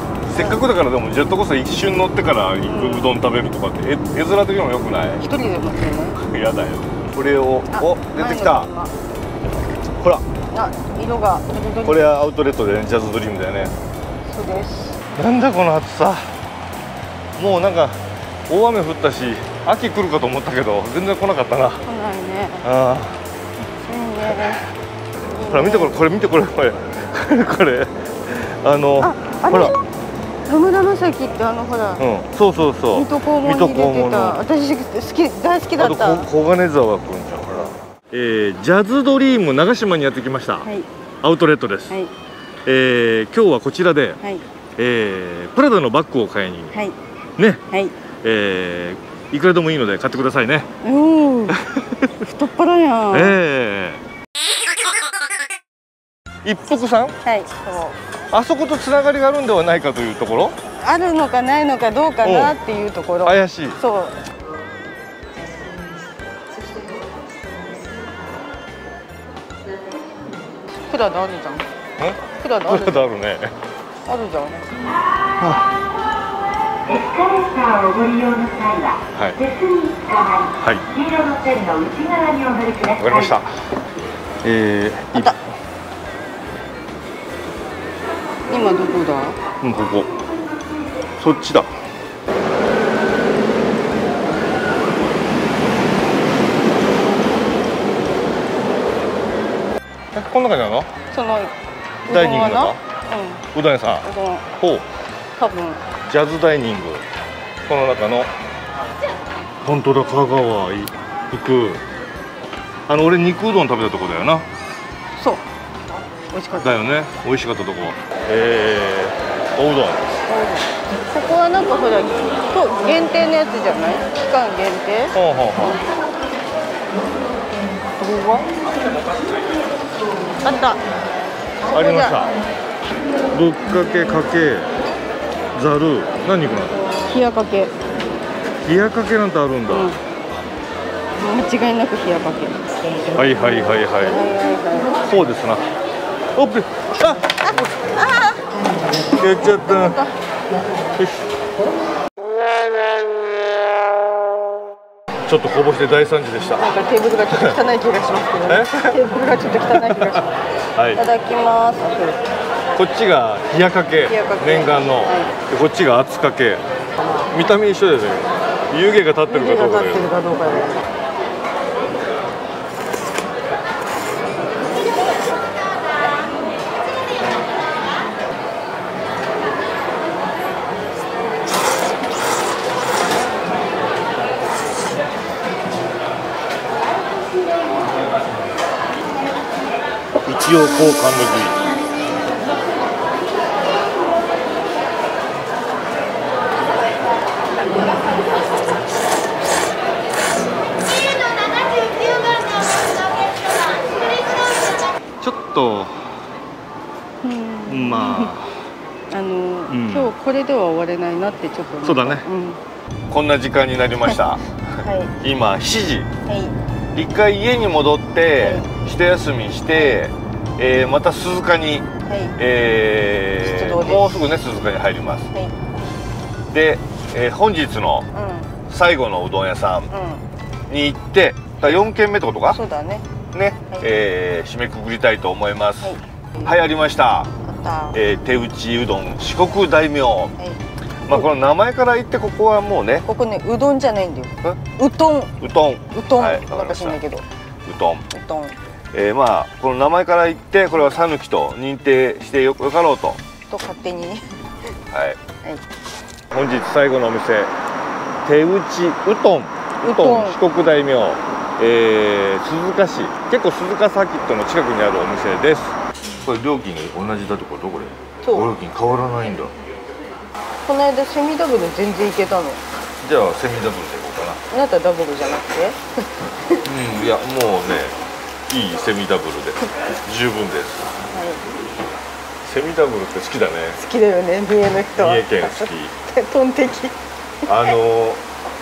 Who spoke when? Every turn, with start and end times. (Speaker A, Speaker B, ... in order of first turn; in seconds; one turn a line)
Speaker A: 0.3-5.2
Speaker B: 2.6-3.2
Speaker B: 5.2-6.2
Speaker A: 6.2-8.7
Speaker B: 7.7-8.9
Speaker B: 10.5-12.3
Speaker A: 11.8-13.7
Speaker B: 14.2-15.0
Speaker A: 15.2-16.4
Speaker A: 17.4-21.9
Speaker B: 21.9-22.7
Speaker A: 22.6-23.2
Speaker B: 23.8-24.6
Speaker A: 24.3-24.5
Speaker B: 25.3-26.0
Speaker A: 25.5-29.8
Speaker B: 29.0-29.8
Speaker B: 30.5-32.0
Speaker A: 32.0-34.4
Speaker B: 32.9-36.3
Speaker A: 35.8-40.7
Speaker A: 41.2-42.0
Speaker A: 42.6-44.2
Speaker A: 44.8-46.7
Speaker B: 46.7-47.0
Speaker A: 47.4-47.6
Speaker A: 48.2-50.7
Speaker B: 50.8-51.6
Speaker A: 51.5-52.1
Speaker B: 52.2-53.4
Speaker A: 53.1-54.0
Speaker A: 56.4-57.2
Speaker B: 57.2-58.0
Speaker A: 58.3-60.6
Speaker B: 60.8-64.2
Speaker A: 62.2-62.6
Speaker A: 63.2-63.8
Speaker B: 70.8-71.7
Speaker A: 72.0-73.5
Speaker B: 72.3-73.1
Speaker B: 74.1-74.7
Speaker A: 75.4-75.7
Speaker C: 77.0-78.9
Speaker A: 79.1-79.4
Speaker C: 79.7-80.4
Speaker A: 80.6-80.9
Speaker C: 81.1-82.9
Speaker A: 82.9-83.6
Speaker A: 84.4-85.4
Speaker B: 88.5-89.4
Speaker A: 89.6-90.1
Speaker A: 91.2-91.7
Speaker A: 100.1-100.9
Speaker B: 101.1-101.5
Speaker A: 102.1-102.8
Speaker B: 102.1-103.5
Speaker A: 103.5-104.1
Speaker B: 104.0-104.5
Speaker A: 104.6-104.8
Speaker B: 105.4-105.8
Speaker A: 106.1-107.0
Speaker A: 107.7-108.3
Speaker A: 109.6-111.8
Speaker A: 112.9-114.5
Speaker B: 115.1-115.4
Speaker B: 116.3-116.8
Speaker A: 116.6-120.2
Speaker B: 120.3-125.2
Speaker A: 125.1-125.8
Speaker B: 128.0-128.5
Speaker B: 130.4-130.8
Speaker B: 131.7-132.2
Speaker A: 131.7-132.4
Speaker A: 133.3-134.7
Speaker A: 135.5-136.8
Speaker B: 136.8-137.7
Speaker A: 138.7-140.0
Speaker B: 139.7-140.0
Speaker B: 141.2-142.6
Speaker A: 143.1-144.3
Speaker B: 144.0-145.0
Speaker A: 145.0-145.7
Speaker A: 146.3-147.2
Speaker B: 148.0-148.4
Speaker A: 149.2-150.0
Speaker B: 149.6-150.1
Speaker A: 151.0-151.2
Speaker A: 155.3-156.7
Speaker B: 156.6-160.3
Speaker A: 157.3-157.6
Speaker A: 158.5-159.1
Speaker A: 159.9-160.2
Speaker A: 160.8-161.0
Speaker B: 160.9-162.2
Speaker A: 162.8-166.6
Speaker B: 164.1-165.3
Speaker A: 167.3-170.1
Speaker B: 169.3-170.8
Speaker A: 190.2-191.6
Speaker A: 205.2-206.0
Speaker B: 207.2-208.3
Speaker A: 207.7-208.5
Speaker B: 209.1-212.6
Speaker A: 209.7-210.1
Speaker A: 211.8-212.2
Speaker A: 213.1-216.1
Speaker B: 214.8-215.1
Speaker B: 216.3-216.6
Speaker A: 216.9-221.9
Speaker B: 218.4-218.7
Speaker B: 222.1-222.4
Speaker A: 222.4-225.3
Speaker B: 223.4-224.3
Speaker A: 226.5-228.1
Speaker B: 228.1-228.6
Speaker A: 228.7-229.9
Speaker B: 229.9-230.2
Speaker A: 230.7-232.6
Speaker B: 232.5-233.1
Speaker A: 233.3-237.3
Speaker B: 235.8-236.6
Speaker B: 237.4-238.0
Speaker A: 237.9-240.3
Speaker B: 240.4-241.2
Speaker A: 241.1-243.1
Speaker B: 243.0-245.4
Speaker A: 245.4-247.0
Speaker B: 245.9-247.2
Speaker A: 247.7-248.1
Speaker B: 248.1-248.6
Speaker A: 248.9-253.2
Speaker B: 253.5-254.3
Speaker A: 254.9-255.2
Speaker A: 256.3-257.5
Speaker A: 258.2-269.5
Speaker B: 259.8-260.4
Speaker B: 268.2-268.5
Speaker B: 270.6-272.6
Speaker A: 273.0-274.4
Speaker B: 274.5-275.8
Speaker A: 276.6-278.0
Speaker A: 278.5-281.0
Speaker B: 281.1-281.4
Speaker A: 282.4-283.8
Speaker B: 283.8-286.9
Speaker A: 285.0-285.9
Speaker A: 287.5-288.2